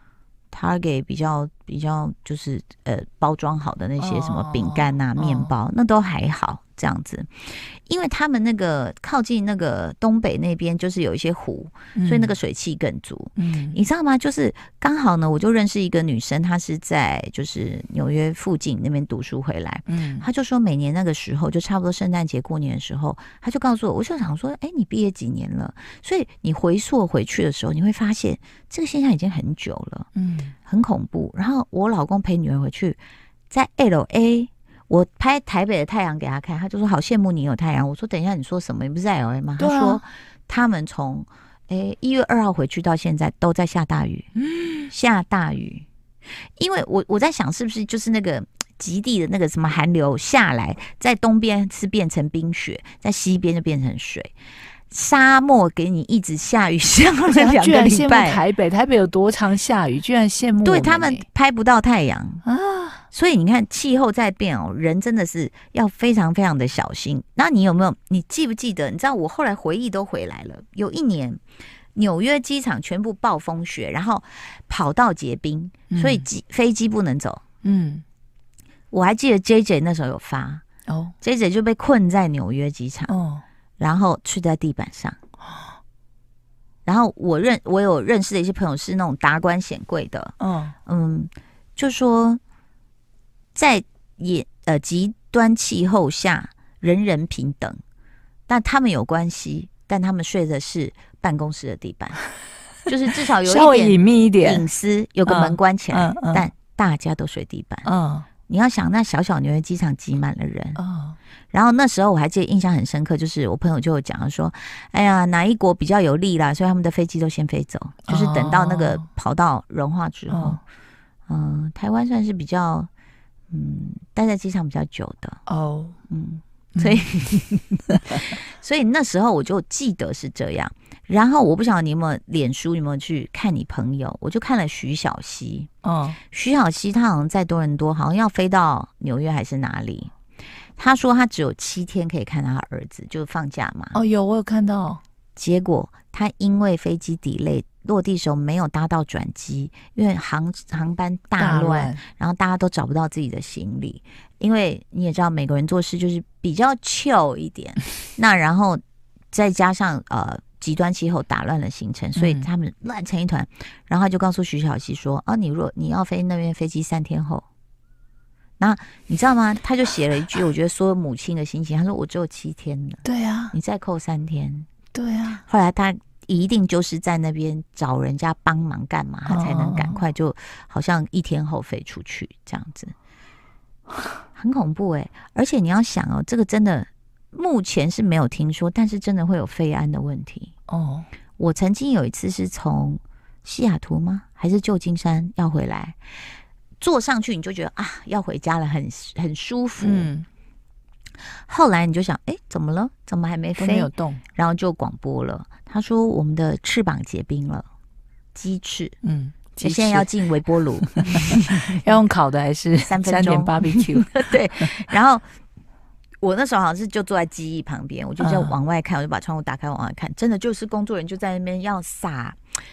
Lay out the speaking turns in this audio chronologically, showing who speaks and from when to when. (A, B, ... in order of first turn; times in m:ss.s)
0:00.5-0:30.1 A
0:04.0-0:05.5 B
0:12.0-0:12.4 B
0:13.4-0:13.8 B
0:19.9-0:20.3 B
0:30.2-0:30.5 B
0:30.7-0:44.3 A
0:39.6-0:40.0 B
0:44.4-0:44.9 B
0:44.9-0:45.9 A
0:46.6-0:54.3 A
0:54.9-0:58.4 A
0:57.3-1:01.3 B
1:00.6-1:02.4 A
1:02.4-1:03.0 B
1:03.1-1:11.4 A
1:12.0-1:17.4 A
1:15.9-1:16.3 B
1:17.6-1:18.0 B
1:18.9-1:20.6 A
1:20.9-1:21.1 B
1:21.2-1:23.1 A
1:23.1-1:23.4 B
1:23.8-1:25.2 A
1:26.8-1:30.3 A
1:30.4-1:30.8 B
1:30.8-1:32.4 A
1:33.6-1:37.8 A
1:38.5-1:42.2 A
1:42.9-1:47.9 A
1:43.4-1:44.7 B
1:45.2-1:46.5 B
1:47.8-1:48.3 B
1:48.5-1:50.8 A
1:50.8-1:51.2 B
1:51.5-2:00.6 A
1:58.1-1:59.0 B
2:00.3-2:00.6 B
2:01.3-2:02.9 A
2:03.5-2:05.4 A
2:05.5-2:06.0 B
2:06.1-2:15.7 A
2:06.8-2:07.0 B
2:15.8-2:16.2 B
2:16.3-2:20.1 A
2:20.8-2:24.0 A
2:23.9-2:25.0 B
2:25.4-2:38.8 A
2:31.4-2:32.0 B
2:39.3-2:47.4 A
2:42.2-2:42.5 B
2:48.6-2:54.7 A
2:53.0-2:53.6 B
2:54.9-2:55.4 B
2:55.4-3:02.9 A
2:59.2-3:00.0 B
3:04.4-3:10.5 A
3:10.7-3:11.1 B
3:11.4-3:16.0 A
3:16.8-3:20.1 A
3:19.8-3:20.2 B
3:21.4-3:27.7 A
3:23.6-3:24.2 B
3:28.3-3:29.0 A
3:29.0-3:30.2 B
3:29.6-3:31.8 A
3:30.8-3:34.8 B
3:32.9-3:35.2 A
3:36.2-3:42.4 A
3:38.2-3:38.6 B